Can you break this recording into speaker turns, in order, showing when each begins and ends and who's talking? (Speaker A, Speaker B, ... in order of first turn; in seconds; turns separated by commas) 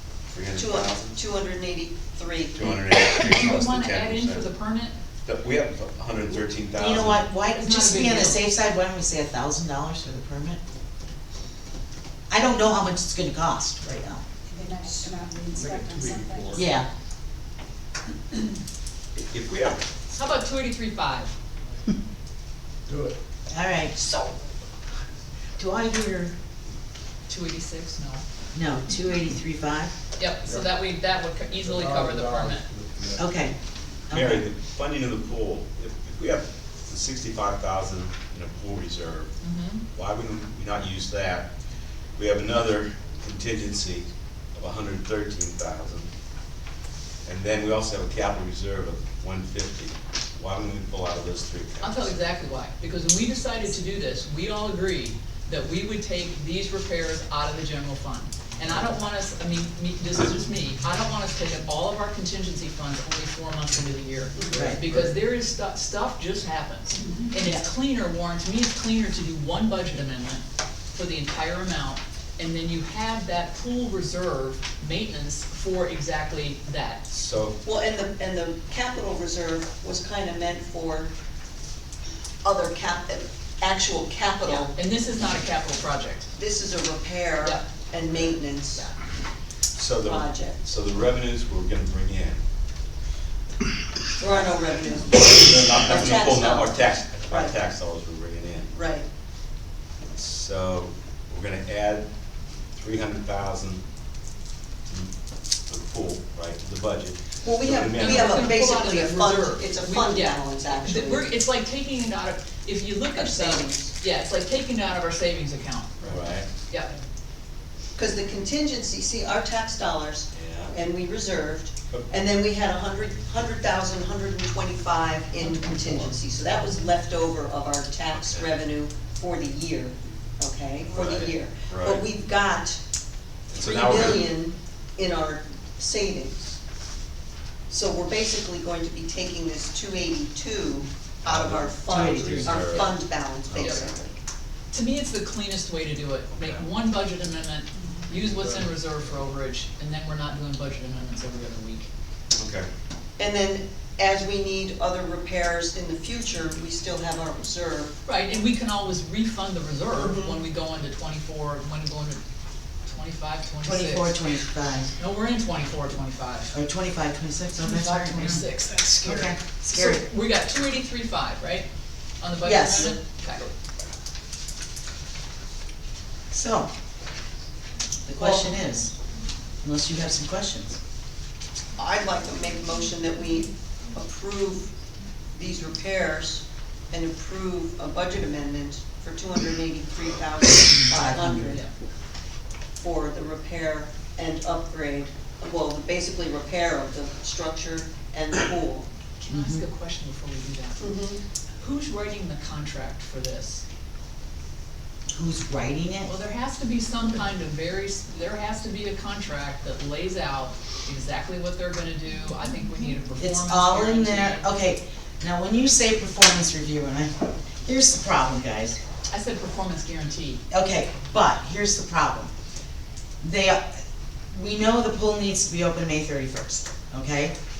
Speaker A: 0.3-1.2, Speaker B: 0.6-2.8, Speaker A: 2.5-4.5, Speaker C: 3.2-4.9, Speaker A: 5.2-7.3, Speaker D: 6.8-10.6, Speaker C: 7.5-8.4, Speaker D: 12.3-14.2, Speaker E: 14.5-16.7, Speaker F: 15.6-16.6, Speaker D: 16.5-16.9, Speaker A: 19.1-19.9, Speaker C: 20.1-21.3, Speaker F: 22.9-23.2, Speaker D: 23.5-24.0, Speaker B: 24.0-24.3, Speaker D: 25.6-26.3, Speaker C: 27.3-28.2, Speaker D: 28.5-29.9, Speaker C: 30.2-32.7, Speaker F: 30.4-30.8, Speaker F: 31.5-33.4, Speaker D: 33.1-33.5, Speaker D: 34.1-34.5, Speaker A: 34.1-39.3, Speaker C: 39.4-39.8, Speaker A: 39.9-41.5, Speaker A: 42.2-46.1, Speaker A: 47.2-52.2, Speaker C: 51.8-77.0, Speaker D: 64.5-64.8, Speaker A: 77.1-77.6, Speaker B: 77.6-81.1, Speaker B: 82.4-84.7, Speaker C: 84.4-86.3, Speaker B: 86.3-88.8, Speaker A: 89.7-92.4, Speaker B: 90.0-90.6, Speaker B: 94.2-97.6, Speaker A: 94.2-98.7, Speaker B: 98.7-99.0, Speaker A: 100.1-102.1, Speaker A: 102.8-103.8, Speaker A: 105.7-108.6, Speaker B: 107.4-111.3, Speaker C: 108.0-116.9, Speaker B: 113.1-113.9, Speaker A: 116.0-116.5, Speaker B: 118.0-132.8, Speaker A: 120.3-120.7, Speaker A: 128.1-128.6, Speaker A: 130.9-132.1, Speaker A: 133.5-134.3, Speaker B: 133.6-136.4, Speaker B: 137.7-144.1, Speaker A: 141.2-144.0, Speaker D: 141.9-142.7, Speaker C: 144.7-151.9, Speaker A: 146.3-146.6, Speaker F: 148.2-148.7, Speaker A: 152.3-152.7, Speaker B: 153.2-158.0, Speaker C: 158.1-162.2, Speaker B: 159.9-160.4, Speaker C: 162.8-164.2, Speaker D: 163.6-164.9, Speaker C: 164.9-166.5, Speaker D: 166.5-170.0, Speaker C: 167.6-171.7, Speaker C: 172.2-173.5, Speaker D: 172.4-172.9, Speaker D: 176.3-176.7, Speaker D: 178.0-178.9, Speaker B: 178.2-178.6, Speaker D: 179.6-180.8, Speaker B: 181.8-184.7, Speaker B: 185.3-191.6, Speaker D: 190.9-191.6, Speaker B: 192.8-198.9, Speaker C: 199.2-200.9, Speaker D: 199.3-199.6, Speaker B: 200.8-201.2, Speaker C: 201.6-203.6, Speaker D: 205.1-206.1, Speaker C: 206.0-214.5, Speaker D: 213.2-217.1, Speaker D: 217.6-218.8, Speaker C: 219.1-220.4, Speaker D: 220.5-222.3, Speaker D: 223.2-223.6, Speaker D: 224.3-227.3